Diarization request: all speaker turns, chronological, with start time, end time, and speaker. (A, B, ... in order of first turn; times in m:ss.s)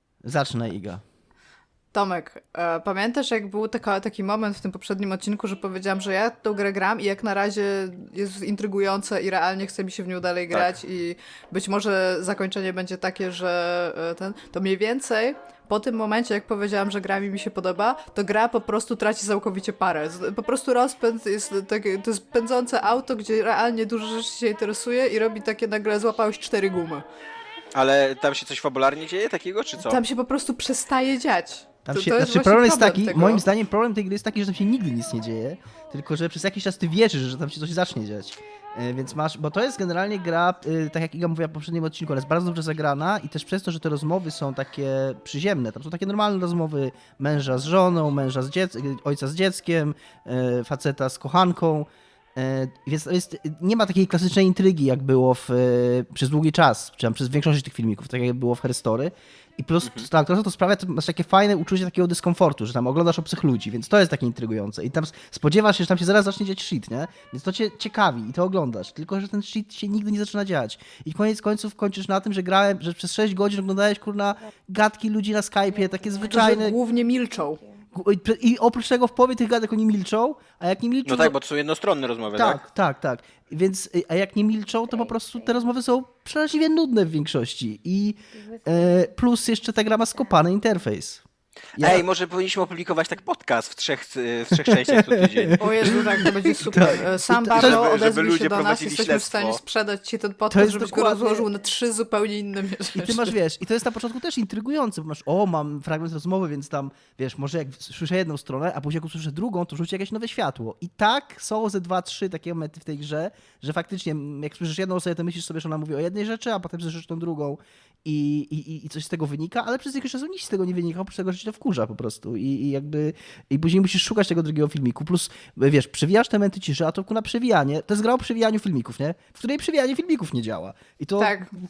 0:00.2-0:01.0 A
0:01.9-0:27.0 B
0:27.7-0:30.0 C
0:29.8-0:33.4 B
0:31.8-1:16.8 A
0:59.8-1:00.1 C
1:16.2-1:17.6 B
1:17.9-1:21.4 A
1:21.0-1:22.6 C
1:22.3-1:31.2 A
1:31.8-1:32.0 A
1:31.8-1:35.6 C
1:34.5-1:37.8 A
1:35.6-1:43.3 B
1:37.5-1:39.6 C
1:40.5-1:41.5 A
1:42.9-2:11.5 A
2:11.2-2:11.5 B